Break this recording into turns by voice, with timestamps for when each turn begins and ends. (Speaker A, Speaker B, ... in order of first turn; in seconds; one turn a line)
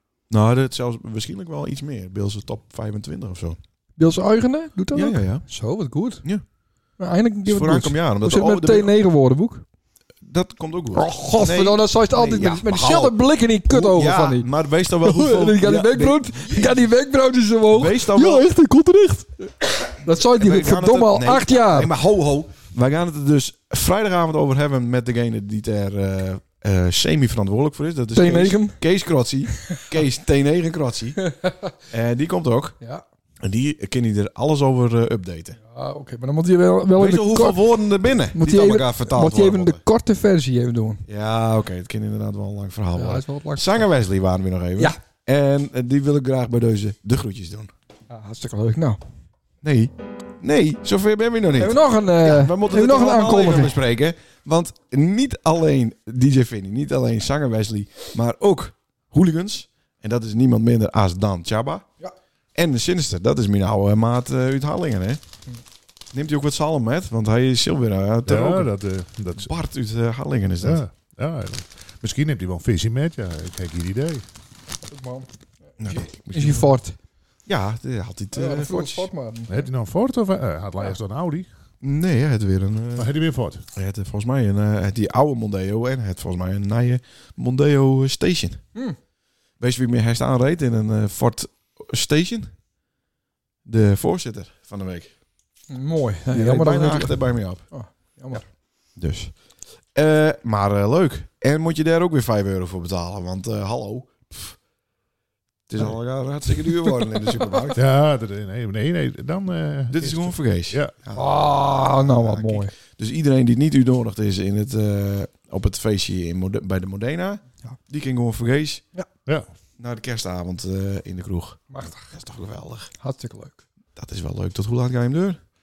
Speaker A: 0.3-3.6
Speaker B: 4.0-6.2
Speaker A: 4.9-5.5
Speaker B: 7.0-9.6
Speaker A: 7.5-8.9
Speaker A: 10.2-16.9
Speaker B: 10.9-21.9
Speaker A: 17.7-18.5
Speaker A: 20.2-31.2
Speaker B: 28.1-28.8
Speaker B: 31.2-31.7
Speaker A: 31.9-32.8
Speaker A: 33.4-35.6
Speaker B: 35.6-37.6
Speaker A: 37.0-39.8
Speaker B: 38.3-41.0
Speaker A: 41.1-47.7
Speaker B: 43.0-43.9
Speaker B: 48.1-49.0
Speaker A: 49.6-61.9
Speaker B: 51.6-53.8
Speaker A: 62.5-65.2
Speaker A: 66.1-68.7
Speaker C: 68.3-69.5
Speaker A: 69.5-70.8
Speaker C: 70.6-74.2
Speaker B: 74.9-75.3
Speaker A: 75.8-76.8
Speaker B: 75.8-77.0
Speaker A: 77.5-79.1
Speaker B: 78.3-79.7
Speaker C: 79.5-81.5
Speaker A: 81.8-83.1
Speaker C: 83.0-83.6
Speaker A: 83.7-88.6
Speaker A: 89.6-92.5
Speaker A: 93.7-95.1
Speaker B: 95.7-98.4
Speaker A: 96.3-97.7
Speaker A: 99.0-99.3
Speaker A: 100.0-104.6
Speaker A: 105.7-107.8
Speaker B: 106.7-107.8
Speaker C: 107.8-111.0
Speaker A: 109.9-111.3
Speaker B: 111.1-112.7
Speaker A: 112.1-118.8
Speaker A: 119.8-122.9
Speaker B: 121.7-122.1
Speaker B: 123.0-123.6
Speaker A: 124.0-125.4